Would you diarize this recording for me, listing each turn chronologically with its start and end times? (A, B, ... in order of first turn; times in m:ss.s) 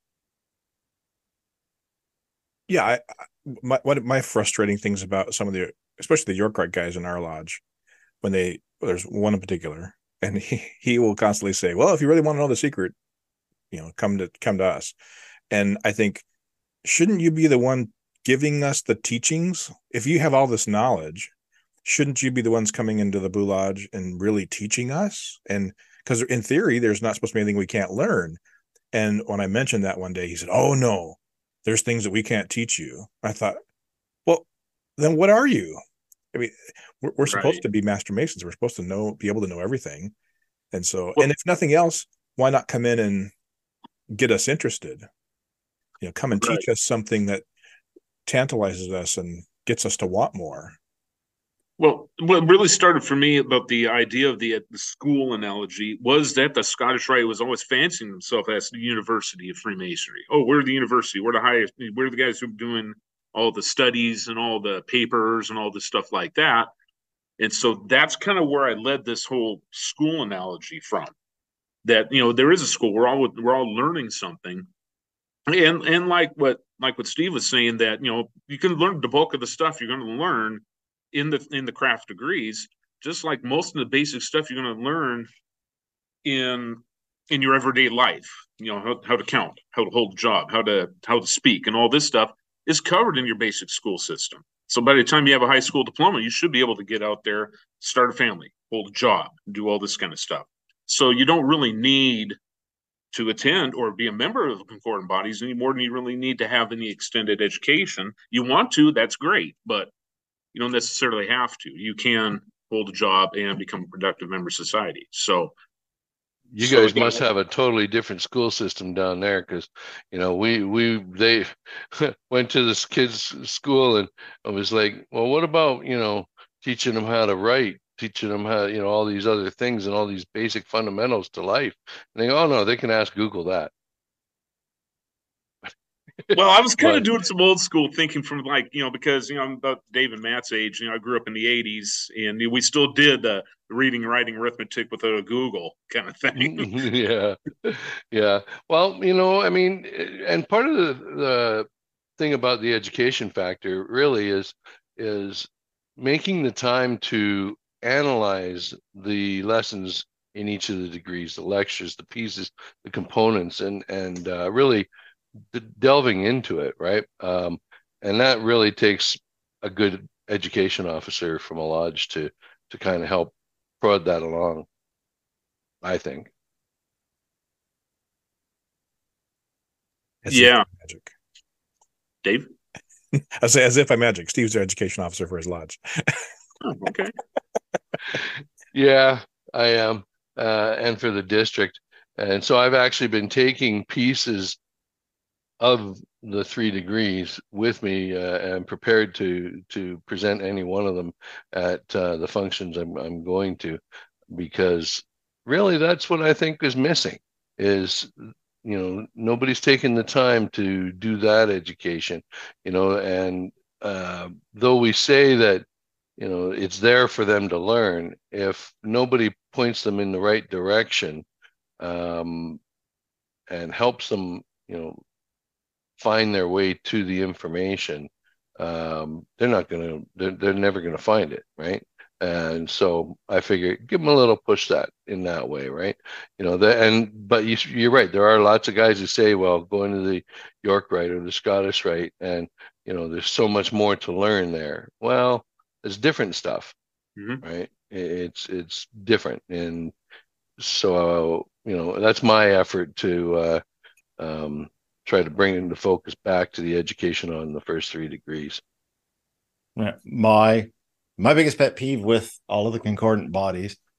0:02.7-0:07.6 A
0:08.2-0:12.9 A
0:13.7-0:15.0 A
0:15.5-0:16.2 A
0:16.8-0:21.3 A
0:21.8-0:28.4 A
0:28.9-0:33.6 A
0:35.0-0:35.8 A
0:36.3-0:40.1 A
0:37.3-0:37.6 B
0:40.7-0:43.3 A
0:44.1-0:45.1 A
0:46.0-0:47.4 A
0:46.4-0:46.6 B
0:48.3-0:50.8 A
0:51.8-1:06.7 B
1:07.4-1:11.1 B
1:11.8-1:14.7 B
1:15.5-1:25.3 B
1:26.2-1:42.4 B
1:43.1-1:49.9 B
1:50.5-1:55.5 B
1:56.5-2:13.7 C
1:56.6-1:57.2 B
2:16.3-2:17.1 C
2:16.3-2:26.8 B
2:26.4-2:44.9 C
2:45.5-2:54.7 C
2:55.8-2:56.3 C
3:00.2-3:01.1 A
3:00.3-3:00.7 B
3:02.2-3:02.5 B
3:03.2-3:06.2 A
3:06.6-3:07.2 B
3:08.7-3:14.6 C
3:15.6-3:23.8 C
3:24.3-3:35.7 C
3:36.2-3:41.2 C
3:41.8-3:42.6 C
3:43.5-3:45.0 C
3:46.0-4:06.7 C
4:07.2-4:07.4 B
4:07.4-4:09.9 C
4:10.6-4:13.6 C
4:14.2-4:18.6 C
4:19.8-4:23.8 D